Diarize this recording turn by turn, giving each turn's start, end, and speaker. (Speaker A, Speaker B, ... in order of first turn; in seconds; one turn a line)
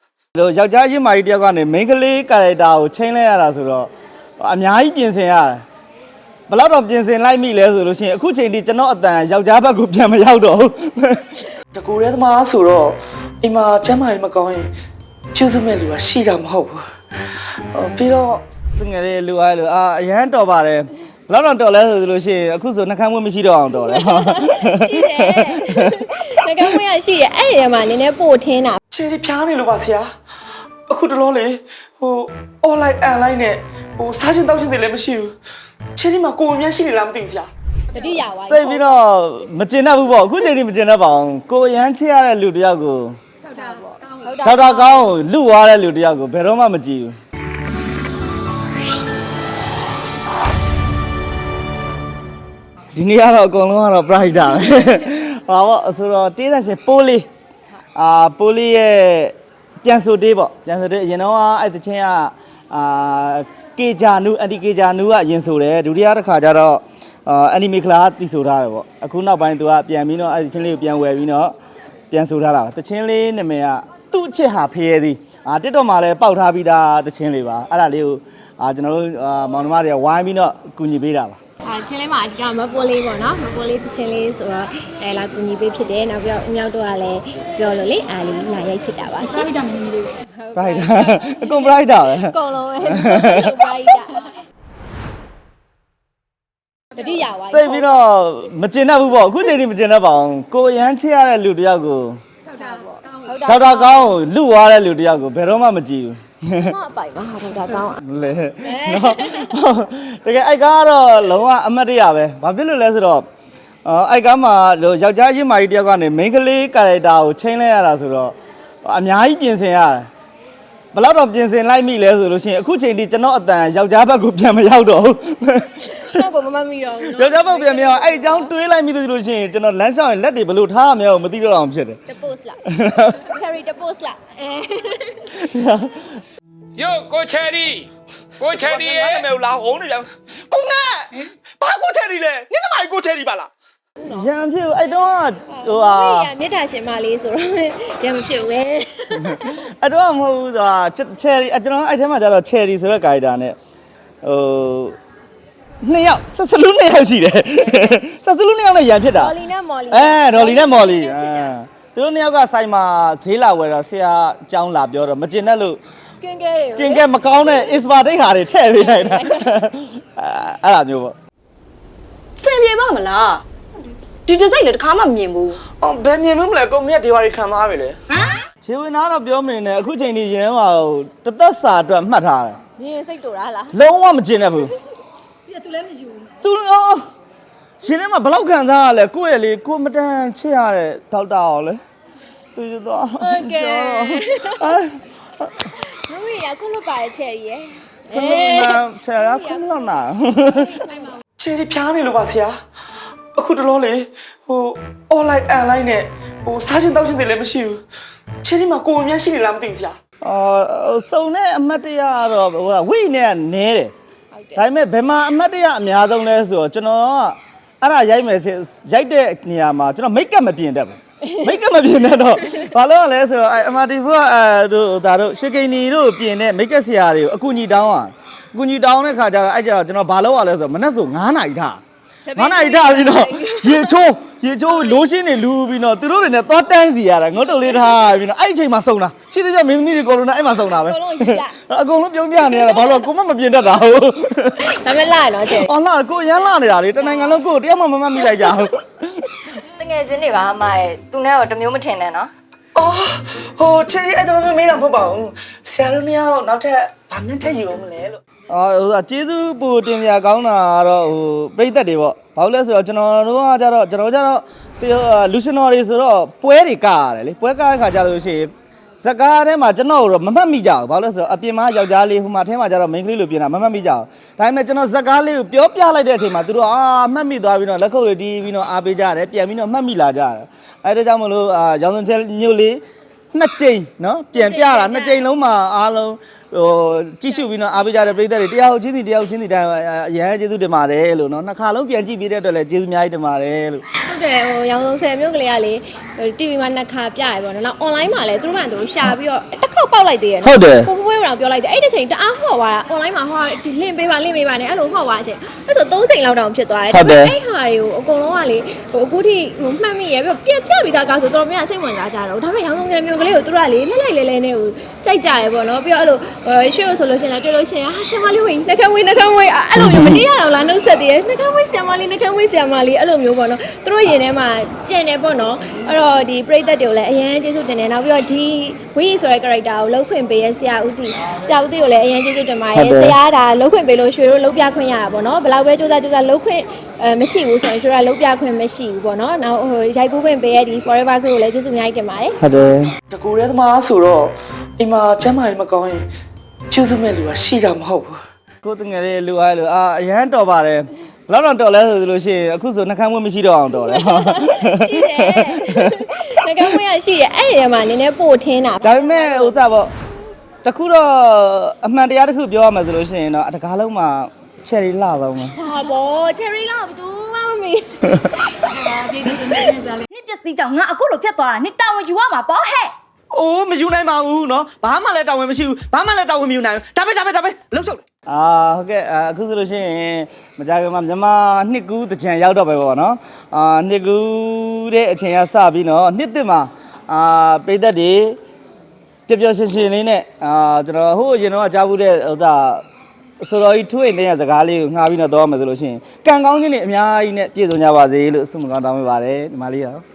Speaker A: 0.3-5.6
Speaker A: 6.5-11.4
Speaker B: 11.7-14.7
Speaker B: 15.3-16.8
Speaker B: 17.8-18.4
Speaker A: 18.8-26.8
Speaker C: 23.9-28.8
Speaker B: 28.9-30.1
Speaker B: 30.9-35.3
Speaker B: 36.0-37.5
Speaker C: 37.9-38.9
Speaker A: 38.5-43.2
Speaker C: 43.5-45.1
Speaker A: 44.4-47.1
Speaker A: 53.0-57.3
Speaker A: 58.0-71.5
Speaker A: 72.1-81.4
Speaker C: 81.6-89.7
Speaker D: 89.5-90.1
Speaker C: 90.4-94.3
Speaker A: 90.5-93.7
Speaker C: 97.0-97.9
Speaker A: 97.5-102.2
Speaker C: 102.5-104.2
Speaker A: 103.5-106.7
Speaker C: 106.6-108.0
Speaker A: 108.0-113.3
Speaker C: 108.6-109.5
Speaker A: 113.9-120.1
Speaker A: 120.9-126.2
Speaker C: 125.8-128.5
Speaker A: 127.0-132.0
Speaker C: 132.1-132.6
Speaker A: 132.7-133.2
Speaker C: 133.2-135.4
Speaker A: 135.3-136.2
Speaker E: 136.8-137.9
Speaker E: 138.4-139.3
Speaker B: 138.5-143.5
Speaker A: 144.0-146.3
Speaker C: 145.5-149.6
Speaker A: 149.1-153.6
Speaker A: 154.2-155.0
Speaker A: 155.8-159.4
Speaker C: 157.4-158.0
Speaker C: 159.1-161.6
Speaker A: 159.9-165.8
Speaker C: 166.2-167.8
Speaker A: 166.7-171.2
Speaker C: 168.9-169.5
Speaker D: 172.4-173.4
Speaker D: 174.3-175.6
Speaker B: 175.8-178.0
Speaker D: 178.1-178.4
Speaker A: 178.6-182.6
Speaker C: 182.8-183.8
Speaker A: 183.7-184.7
Speaker D: 185.5-186.3
Speaker A: 186.4-187.0
Speaker A: 187.8-191.8
Speaker A: 192.6-195.0
Speaker C: 193.2-194.8
Speaker C: 195.8-201.2
Speaker A: 198.1-200.8
Speaker B: 201.4-202.5
Speaker B: 203.4-207.8
Speaker B: 208.4-210.0
Speaker A: 210.2-213.9
Speaker C: 214.3-214.7
Speaker A: 214.6-231.8
Speaker C: 221.2-221.6
Speaker C: 232.2-234.0
Speaker A: 232.4-244.8
Speaker C: 240.6-241.6
Speaker C: 242.4-243.1
Speaker C: 244.6-245.7
Speaker A: 245.5-249.4
Speaker F: 249.8-252.3
Speaker B: 252.8-258.2
Speaker A: 258.5-282.8
Speaker A: 283.3-293.9
Speaker C: 284.4-285.2
Speaker C: 294.0-342.4
Speaker A: 300.4-300.9
Speaker A: 306.9-307.4
Speaker A: 319.8-320.2
Speaker A: 332.7-333.2
Speaker A: 342.4-342.9
Speaker B: 343.1-346.1
Speaker B: 346.7-348.2
Speaker A: 348.6-356.8
Speaker C: 353.8-359.6
Speaker A: 358.8-359.9
Speaker A: 360.6-365.6
Speaker C: 365.6-369.6
Speaker D: 368.7-372.9
Speaker A: 373.4-375.8
Speaker B: 373.6-378.0
Speaker A: 378.3-388.4
Speaker A: 389.3-392.8
Speaker A: 393.4-400.0